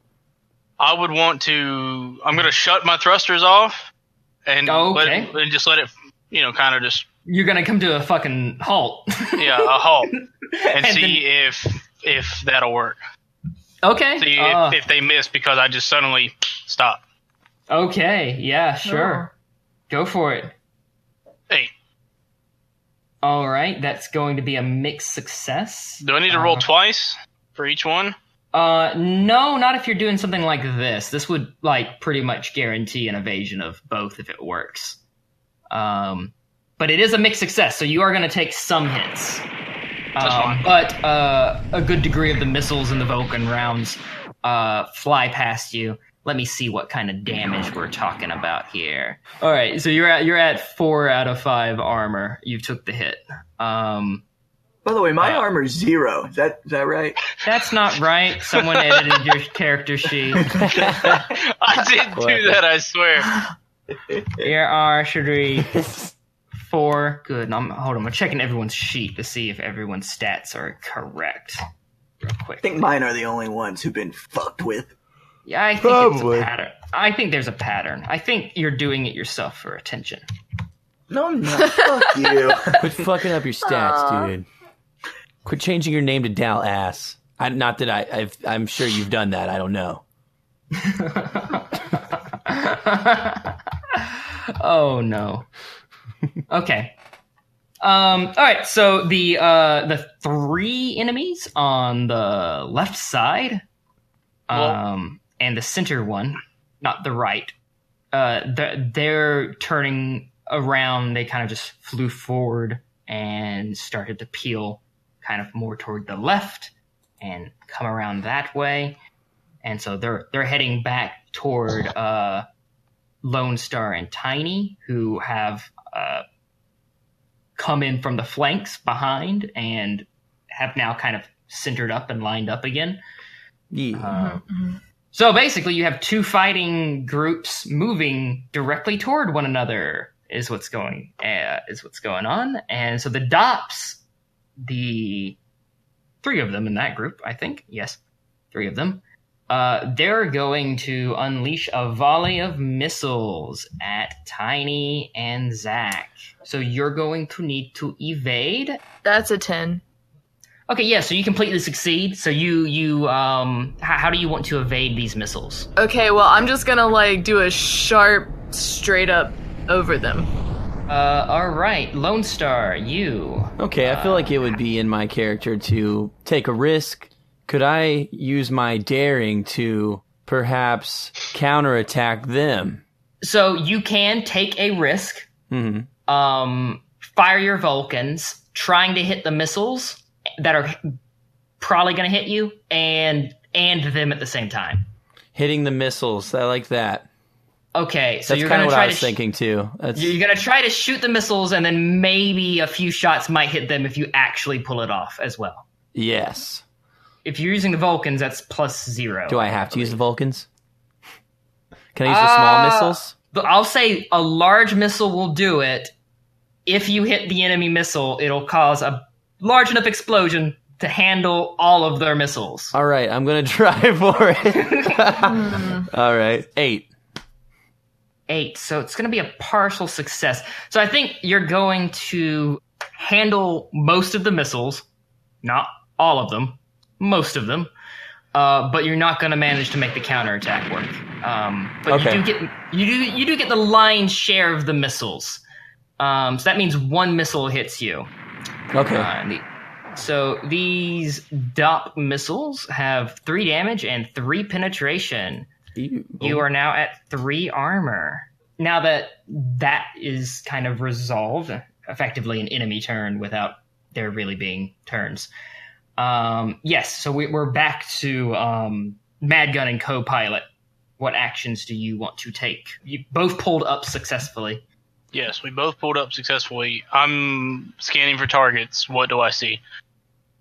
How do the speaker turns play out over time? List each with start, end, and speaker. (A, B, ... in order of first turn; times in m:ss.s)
0:00.8-0:03.9 A
0:04.4-0:07.0 A
0:04.6-0:05.3 B
0:07.2-0:11.2 B
0:09.4-0:10.1 A
0:10.7-0:13.0 A
0:13.8-0:14.8 B
0:14.2-0:17.0 A
0:17.7-0:19.3 B
0:18.8-0:19.3 C
0:19.9-0:20.5 B
0:23.2-0:26.7 B
0:26.0-0:28.1 A
0:28.5-0:35.0 B
0:35.7-0:39.4 B
0:40.2-0:54.2 B
0:40.2-0:40.7 A
0:54.8-0:57.2 D
0:55.2-0:55.5 B
0:57.4-1:00.5 B
1:00.6-1:01.2 E
1:00.7-1:03.4 A
1:02.1-1:02.6 E
1:04.1-1:04.5 D
1:04.4-1:05.7 B
1:06.6-1:11.6 B
1:12.2-1:12.8 B
1:12.6-1:14.9 D
1:15.4-1:20.2 B
1:15.9-1:16.4 E
1:16.0-1:16.4 D
1:21.1-1:22.9 D
1:21.7-1:22.5 C
1:22.8-1:24.5 E
1:23.6-1:24.3 C
1:25.4-1:30.0 E
1:30.7-1:35.5 B
1:36.5-1:37.0 B
1:37.8-1:43.6 B
1:44.5-1:47.5 B
1:44.5-1:44.8 A
1:48.1-1:59.0 B
1:59.6-2:02.4 B
2:03.2-2:06.2 B
2:07.6-2:13.0 B
2:13.7-2:14.2 E
2:13.9-2:14.4 B
2:14.1-2:14.8 C
2:15.1-2:24.0 B
2:24.6-2:25.4 B
2:26.2-2:28.0 B
2:28.5-2:38.8 B
2:39.0-2:39.8 C
2:40.7-2:45.7 B
2:45.8-2:50.3 C
2:50.9-2:54.5 B
2:53.6-3:02.8 E
3:03.2-3:05.3 B
3:05.5-3:05.9 E
3:06.1-3:10.9 B
3:11.6-3:14.9 B
3:15.3-3:17.1 E
3:17.7-3:19.2 B
3:18.3-3:20.1 E
3:19.9-3:25.7 B
3:25.9-3:26.6 E
3:27.2-3:30.0 B
3:29.3-3:30.5 E
3:31.9-3:33.1 E
3:32.0-3:35.9 B
3:36.6-3:42.7 B
3:42.7-3:46.9 E
3:44.5-3:45.0 B
3:45.2-3:45.9 C
3:48.3-3:54.8 B
3:55.4-3:57.7 B
3:58.3-4:05.4 B
4:01.9-4:02.2 E
4:06.0-4:08.1 B
4:08.7-4:09.1 E
4:08.9-4:15.5 B
4:15.7-4:16.4 E
4:16.2-4:25.3 B
4:26.0-4:30.4 B
4:31.0-4:34.6 B
4:35.1-4:39.6 A